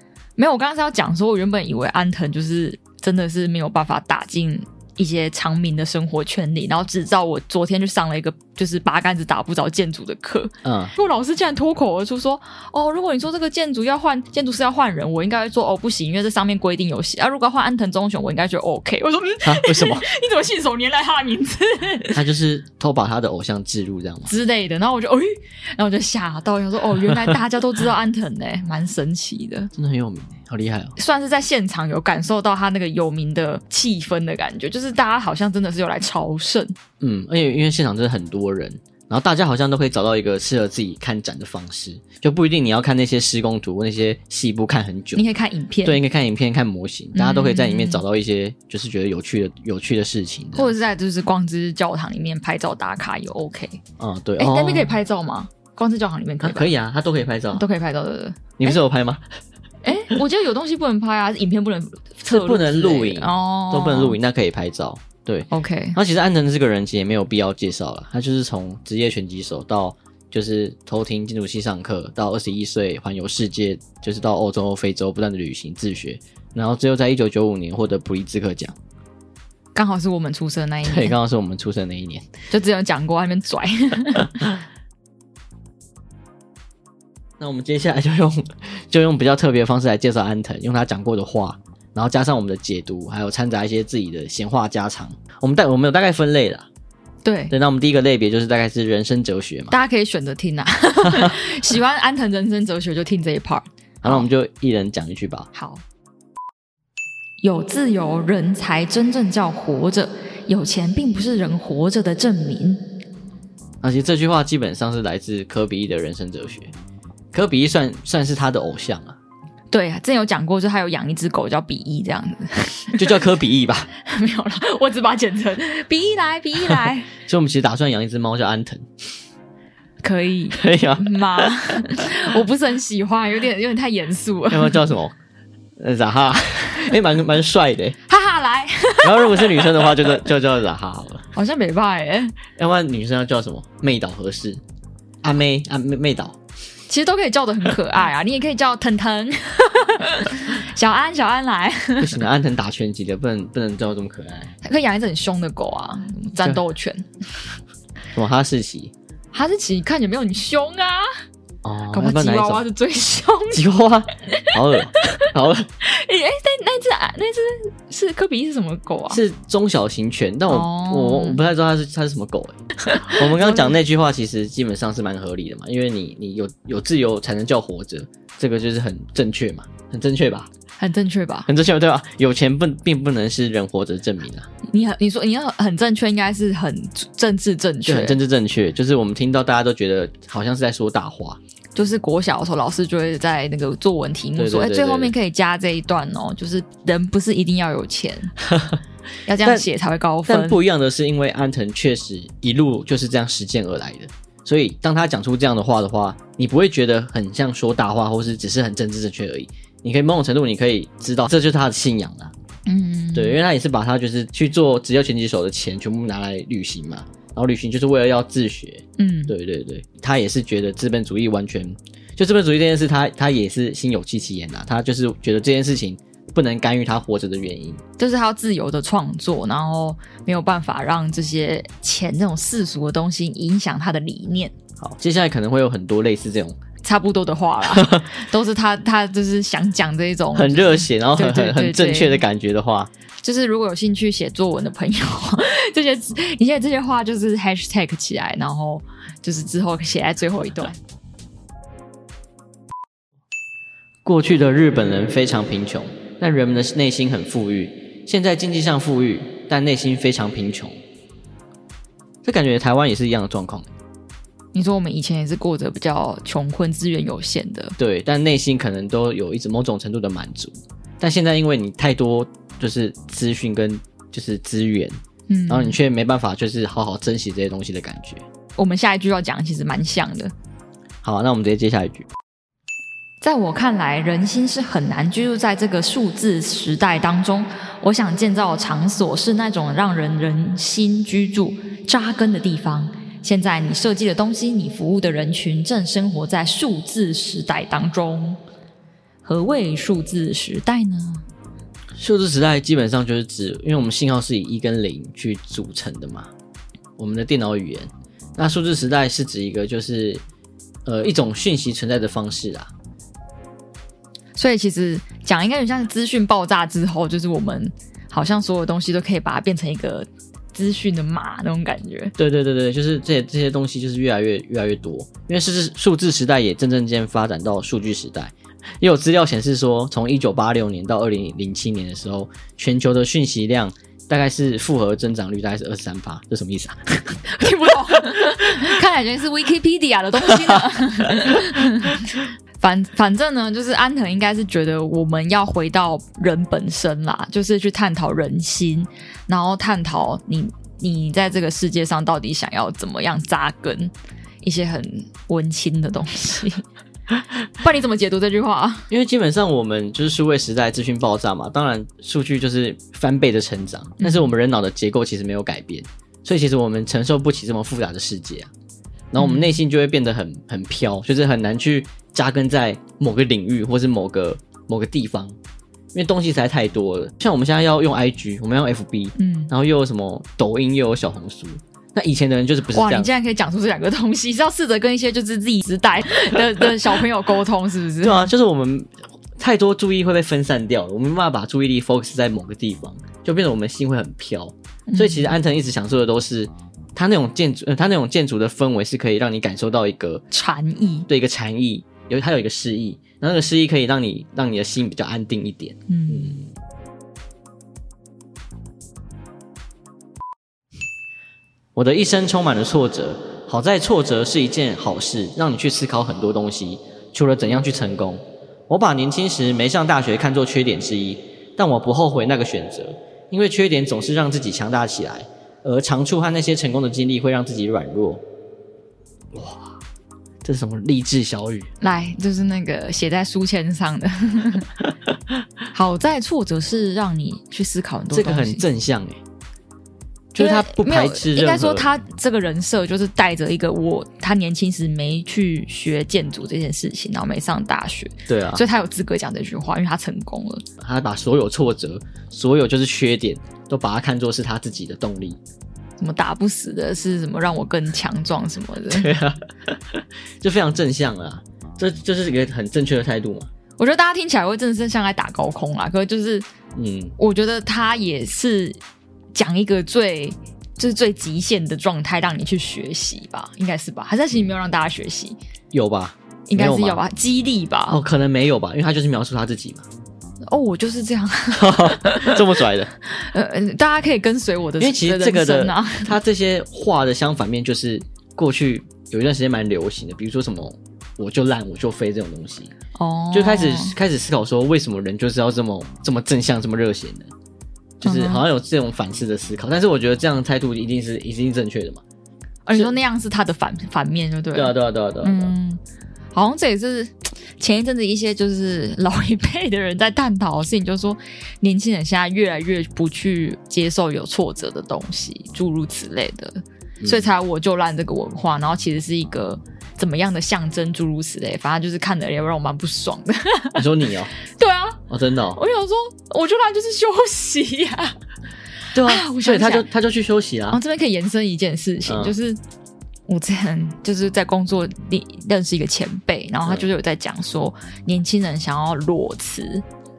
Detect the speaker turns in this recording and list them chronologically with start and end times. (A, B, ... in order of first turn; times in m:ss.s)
0:00.4-0:22.2 A
0:10.6-0:10.9 B
0:19.4-0:20.0 B
0:22.1-0:24.3 B
0:24.3-0:29.7 A
0:27.1-0:27.3 B
0:29.7-0:30.9 B
0:31.0-0:36.8 A
0:37.0-0:45.2 B
0:45.1-0:46.0 A
0:45.8-0:50.7 B
0:47.1-0:48.0 A
0:50.5-0:53.8 A
0:54.0-0:54.9 B
0:54.4-0:56.7 A
0:56.4-0:57.6 B
0:57.5-0:58.8 A
0:58.6-0:59.2 B
0:59.8-1:04.2 A
1:02.3-1:18.8 B
1:05.5-1:06.0 A
1:19.7-1:21.2 A
1:20.8-1:22.3 B
1:22.5-1:24.6 A
1:27.4-1:36.7 B
1:37.2-1:37.5 A
1:37.5-1:39.7 B
1:39.7-1:44.3 A
1:41.1-1:41.3 B
1:44.0-1:45.5 B
1:45.5-1:45.8 A
1:47.4-1:52.9 A
1:53.8-1:56.7 B
1:57.3-1:59.2 B
1:59.7-2:03.1 A
2:03.0-2:03.9 B
2:04.0-2:07.1 A
2:06.8-2:08.9 B
2:10.0-2:14.8 A
2:10.6-2:12.1 B
2:14.5-2:15.2 B
2:15.8-2:18.0 B
2:18.1-2:20.2 A
2:19.0-2:21.3 B
2:21.3-2:22.4 A
2:22.6-2:24.6 B
2:25.2-2:26.4 B
2:26.9-2:32.2 A
2:32.0-2:34.5 B
2:34.6-2:37.1 A
2:38.1-2:38.9 B
2:39.3-2:41.1 A
2:41.6-2:42.6 B
2:41.9-2:43.6 A
2:43.5-2:45.7 B
2:44.3-2:45.3 A
2:45.8-2:49.2 A
2:49.1-3:00.5 B
2:50.5-2:51.4 A
2:52.9-2:53.7 A
3:00.8-3:01.5 A
3:01.5-3:04.5 B
3:04.7-3:08.2 A
3:07.8-3:11.4 B
3:11.7-3:18.3 A
3:14.4-3:15.1 B
3:18.4-3:18.8 B
3:19.2-3:20.6 A
3:20.2-3:32.3 B
3:32.7-3:33.4 A
3:33.1-3:47.8 B
3:39.0-3:39.3 A
3:48.0-3:54.5 A
3:54.8-3:56.6 B
3:56.8-4:02.2 A
3:57.6-3:58.1 B
4:00.3-4:02.9 B
4:03.2-4:10.8 A
4:14.0-4:20.8 B
4:22.2-4:23.7 B
4:24.5-4:27.8 A
4:27.8-4:38.2 B
4:35.3-4:35.8 A
4:38.6-4:40.3 A
4:41.0-4:42.1 B
4:43.2-4:58.4 A
4:59.2-5:01.2 A
5:01.9-5:06.3 B
5:07.0-5:10.2 B
5:10.8-5:12.7 B
5:14.4-5:22.1 A
5:22.2-5:37.2 B
5:37.2-5:56.6 A
5:40.4-5:41.4 B
5:57.5-5:58.9 A
5:58.9-6:08.5 B
6:04.0-6:04.3 A
6:09.1-6:15.4 B
6:09.2-6:09.6 A
6:15.9-6:23.1 B
6:19.2-6:19.5 A
6:22.7-6:28.3 A
6:28.0-6:40.2 B
6:34.9-6:35.3 A
6:40.3-6:41.1 A
6:41.1-6:46.5 B
6:45.9-6:46.4 A
6:51.7-7:08.2 B
7:09.3-7:09.8 B
7:10.4-7:11.7 B
7:11.8-7:14.7 A
7:15.7-7:18.6 A
7:18.1-7:19.2 B
7:20.3-7:21.9 B
7:20.4-7:30.6 A
7:28.3-7:28.6 B
7:30.8-7:35.4 B
7:36.0-7:39.1 A
7:38.9-7:43.5 B
7:43.8-7:46.4 A
7:46.7-7:47.2 B
7:47.2-7:48.8 A
7:49.3-7:55.4 A
7:55.7-7:57.0 B
7:56.5-7:58.0 A
7:57.9-7:59.8 B
8:00.5-8:02.4 A
8:01.5-8:02.9 B
8:03.0-8:06.1 A
8:04.8-8:12.7 B
8:12.9-8:14.0 A
8:13.3-8:17.3 B
8:18.0-8:22.0 B
8:18.0-8:18.4 A
8:22.6-8:25.8 A
8:24.5-8:25.5 B
8:26.3-8:43.8 A
8:37.0-8:37.3 B
8:43.7-8:44.3 B
8:44.5-8:45.0 A
8:45.1-8:45.6 B
8:45.5-8:48.1 A
8:48.9-8:50.8 B
8:49.0-8:49.9 A
8:50.7-8:52.6 A
8:52.0-8:52.4 B
8:53.3-8:59.8 A